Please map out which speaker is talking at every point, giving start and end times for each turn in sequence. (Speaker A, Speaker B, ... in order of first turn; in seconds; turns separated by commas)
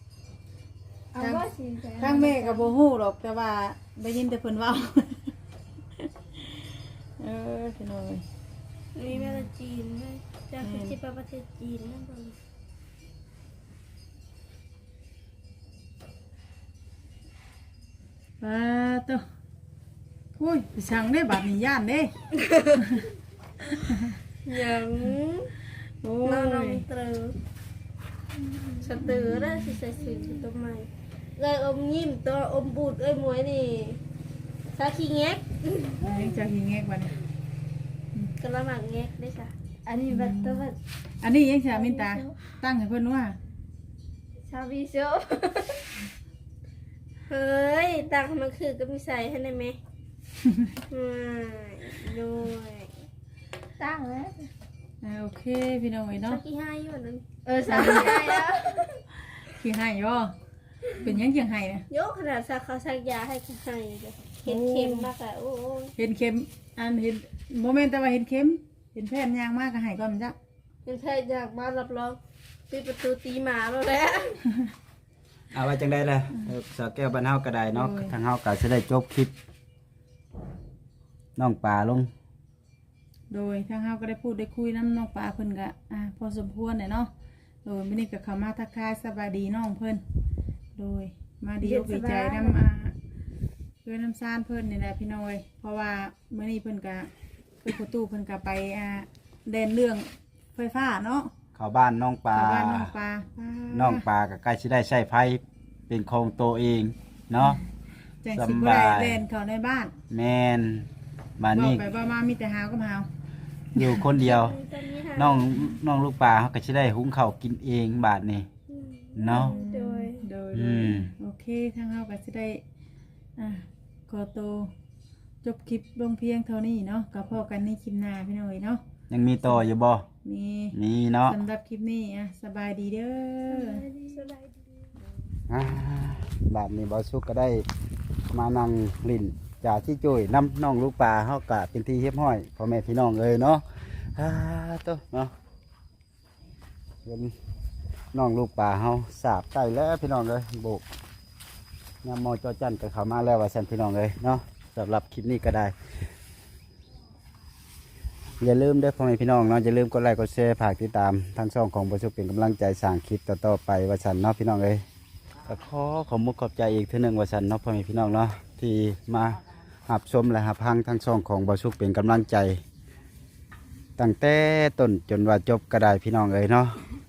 Speaker A: 1.1-2.8, Speaker B: 1.2-5.3, Speaker B: 6.0-8.2, Speaker C: 8.9-12.3, Speaker B: 9.1-9.5, Speaker B: 10.6-10.9, Speaker B: 18.4-19.2, Speaker B: 20.4-22.1, Speaker C: 22.4-22.8, Speaker B: 22.8-23.0, Speaker B: 23.8-24.2, Speaker C: 24.4-25.5, Speaker B: 25.8-26.8, Speaker C: 26.2-27.4, Speaker A: 28.5-28.8, Speaker C: 28.8-34.0, Speaker B: 29.0-29.8, Speaker A: 30.1-30.4, Speaker C: 34.7-36.4, Speaker B: 36.0-37.1, Speaker C: 38.4-39.5, Speaker A: 39.9-40.8, Speaker B: 40.1-40.7, Speaker B: 41.2-43.4, Speaker A: 41.7-42.3, Speaker A: 44.5-45.8, Speaker C: 47.3-49.8, Speaker B: 50.4-50.7, Speaker C: 50.9-53.0, Speaker A: 53.8-54.5, Speaker B: 55.0-56.4, Speaker C: 56.2-59.0, Speaker B: 57.7-58.2, Speaker A: 58.1-58.7, Speaker B: 59.4-60.3, Speaker B: 60.9-61.8, Speaker C: 61.9-65.9, Speaker B: 64.5-65.1, Speaker B: 66.0-70.3, Speaker C: 70.8-72.2, Speaker C: 72.7-74.4, Speaker D: 75.5-79.3, Speaker B: 77.7-78.1, Speaker D: 81.4-82.1, Speaker B: 83.3-87.1, Speaker B: 87.6-90.0, Speaker B: 90.8-92.9, Speaker A: 91.6-92.6, Speaker B: 93.8-97.1, Speaker B: 97.6-101.3, Speaker D: 101.5-102.9, Speaker B: 102.3-104.0, Speaker D: 103.7-107.6, Speaker B: 107.3-107.6, Speaker B: 108.2-109.9, Speaker D: 108.3-109.2, Speaker D: 110.1-111.8, Speaker B: 111.5-113.1, Speaker D: 113.7-114.6, Speaker C: 114.2-115.4, Speaker D: 115.2-118.5, Speaker C: 118.7-120.3, Speaker D: 119.2-119.5, Speaker B: 119.3-122.6, Speaker D: 120.5-121.1, Speaker B: 123.4-124.7, Speaker B: 125.4-128.8, Speaker D: 129.1-130.0, Speaker B: 130.2-130.7, Speaker D: 130.7-131.4, Speaker B: 131.2-133.8, Speaker A: 133.5-134.3, Speaker C: 134.1-134.6, Speaker D: 135.5-137.7, Speaker D: 138.3-143.6, Speaker D: 144.1-145.3, Speaker D: 147.1-147.3, Speaker D: 148.1-150.8, Speaker D: 152.0-155.7, Speaker D: 158.4-164.8, Speaker D: 165.4-172.6, Speaker D: 174.0-176.8